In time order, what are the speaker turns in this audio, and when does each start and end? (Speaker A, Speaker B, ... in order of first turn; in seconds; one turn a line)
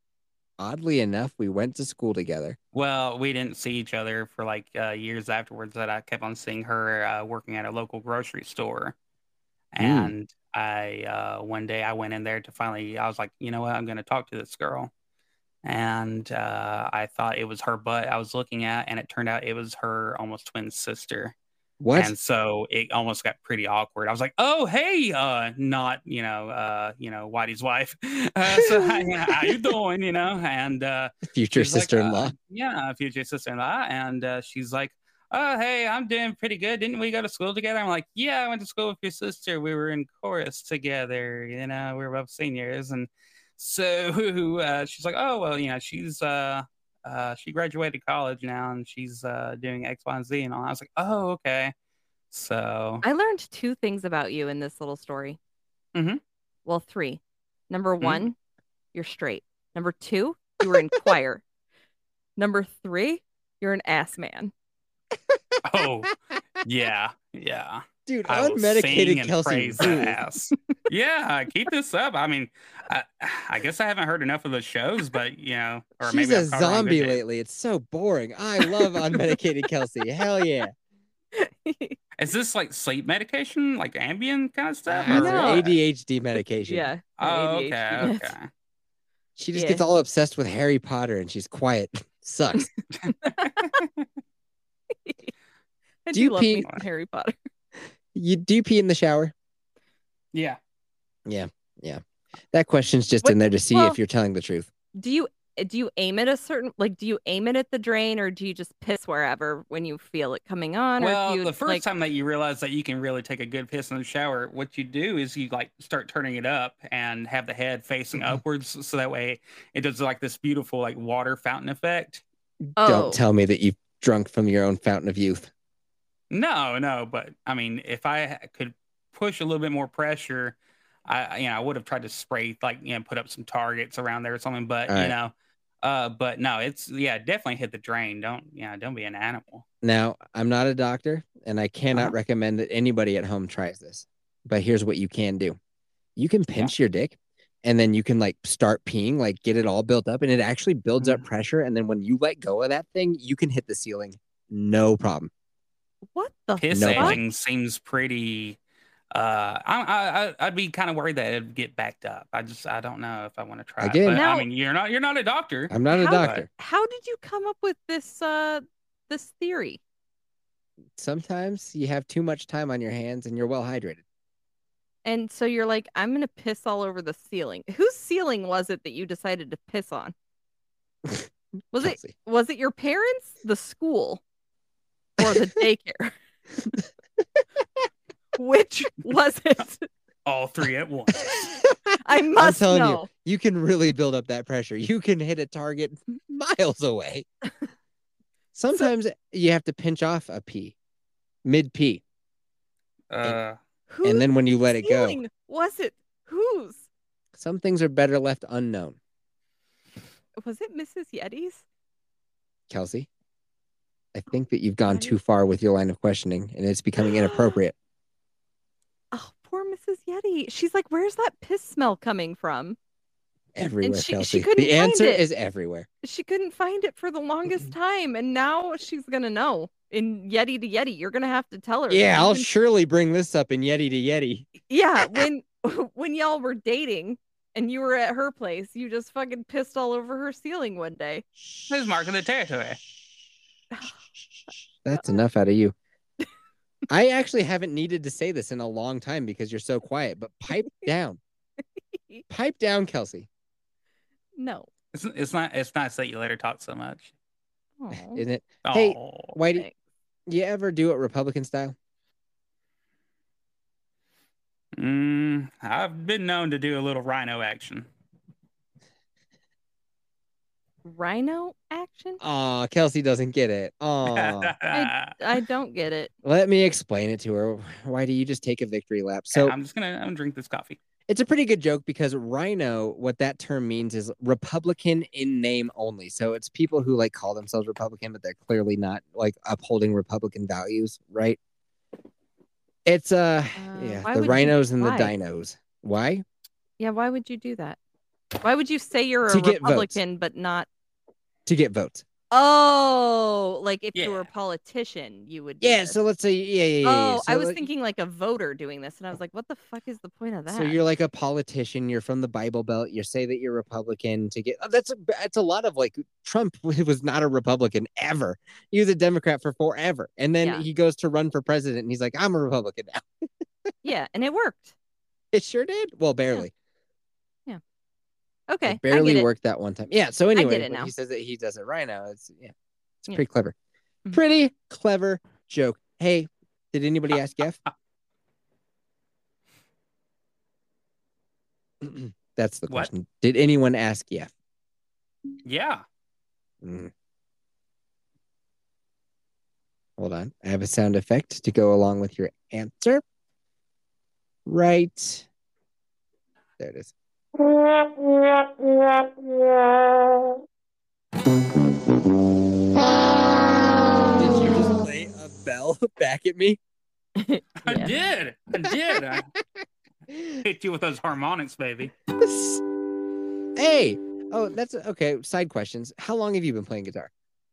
Speaker A: 0.6-2.6
Speaker B: 2.7-8.9
Speaker B: 9.7-14.9
Speaker A: 9.8-10.1
Speaker B: 15.6-21.3
Speaker A: 21.8-22.1
Speaker B: 21.9-51.7
Speaker A: 28.5-29.6
Speaker A: 31.2-32.3
Speaker B: 52.3-53.0
Speaker C: 53.0-55.4
Speaker B: 55.9-56.2
Speaker C: 56.6-58.3
Speaker B: 58.0-58.2
Speaker C: 58.9-61.4
Speaker C: 62.4-64.5
Speaker B: 65.6-77.2
Speaker A: 68.0-70.2
Speaker A: 76.0-80.7
Speaker C: 81.3-82.0
Speaker B: 82.2-85.8
Speaker A: 84.9-86.9
Speaker C: 85.1-85.7
Speaker C: 86.7-88.3
Speaker B: 87.2-88.5
Speaker A: 89.4-92.7
Speaker C: 89.5-89.8
Speaker B: 93.0-94.0
Speaker C: 93.2-93.8
Speaker C: 94.9-95.3
Speaker C: 96.0-97.3
Speaker A: 96.1-96.7
Speaker A: 98.1-99.3
Speaker B: 100.3-100.6
Speaker A: 101.2-104.7
Speaker C: 103.2-104.0
Speaker C: 105.0-111.8
Speaker B: 111.0-122.2
Speaker C: 122.8-123.2
Speaker A: 122.8-125.5
Speaker B: 126.3-139.6
Speaker A: 134.9-135.1
Speaker A: 139.8-145.6
Speaker A: 146.2-155.3
Speaker C: 156.1-157.2
Speaker B: 156.6-158.6
Speaker A: 156.7-157.2
Speaker B: 159.1-166.4
Speaker A: 163.8-164.2
Speaker C: 164.1-164.5
Speaker A: 165.7-166.5
Speaker C: 165.9-169.8
Speaker A: 171.0-174.0
Speaker C: 175.0-180.1
Speaker A: 181.1-182.1
Speaker C: 181.7-184.2
Speaker C: 185.2-186.1
Speaker C: 188.3-189.9
Speaker B: 190.2-191.3
Speaker A: 191.5-197.2
Speaker C: 192.0-193.1
Speaker A: 198.5-200.7
Speaker A: 201.4-202.0
Speaker B: 203.1-203.6
Speaker C: 203.9-206.8
Speaker A: 204.0-205.2
Speaker A: 207.3-209.0
Speaker C: 210.4-211.6
Speaker A: 212.7-213.1
Speaker A: 214.1-217.7
Speaker C: 214.8-215.2
Speaker C: 219.1-222.8
Speaker A: 223.5-225.9
Speaker C: 223.8-225.2
Speaker C: 226.0-232.5
Speaker A: 231.9-234.5
Speaker C: 234.7-241.2
Speaker B: 241.7-242.8
Speaker C: 243.7-244.0
Speaker A: 244.8-245.7
Speaker C: 244.9-245.2
Speaker A: 246.9-251.2
Speaker C: 251.9-252.2
Speaker A: 252.3-253.3
Speaker C: 254.4-254.7
Speaker B: 254.9-257.1
Speaker C: 257.8-258.2
Speaker A: 257.9-259.6
Speaker B: 258.6-259.4
Speaker A: 260.3-261.7
Speaker B: 264.8-267.9
Speaker C: 270.8-272.2
Speaker A: 272.2-274.5
Speaker B: 274.1-275.1
Speaker C: 274.7-276.1
Speaker A: 276.2-279.5
Speaker B: 279.3-280.8
Speaker A: 281.1-291.4
Speaker A: 292.9-296.2
Speaker C: 293.6-295.1
Speaker C: 296.8-297.8
Speaker C: 298.4-300.7
Speaker A: 299.3-300.0
Speaker A: 301.4-302.0
Speaker C: 302.3-306.0
Speaker B: 303.9-304.3
Speaker A: 305.6-307.6
Speaker C: 306.8-310.8
Speaker A: 310.5-323.3
Speaker C: 323.8-324.7
Speaker A: 325.3-326.5
Speaker C: 328.5-329.3
Speaker A: 328.6-332.5
Speaker C: 330.3-330.9
Speaker A: 333.0-333.5
Speaker A: 334.1-337.6
Speaker A: 341.8-344.3
Speaker B: 345.4-345.8
Speaker A: 346.6-346.9
Speaker A: 350.0-353.0
Speaker A: 354.4-355.3
Speaker A: 356.6-356.9
Speaker A: 364.0-366.6
Speaker C: 367.2-367.9
Speaker B: 367.6-369.3
Speaker A: 368.7-368.9
Speaker B: 370.4-371.9
Speaker A: 372.2-372.6
Speaker A: 373.6-377.1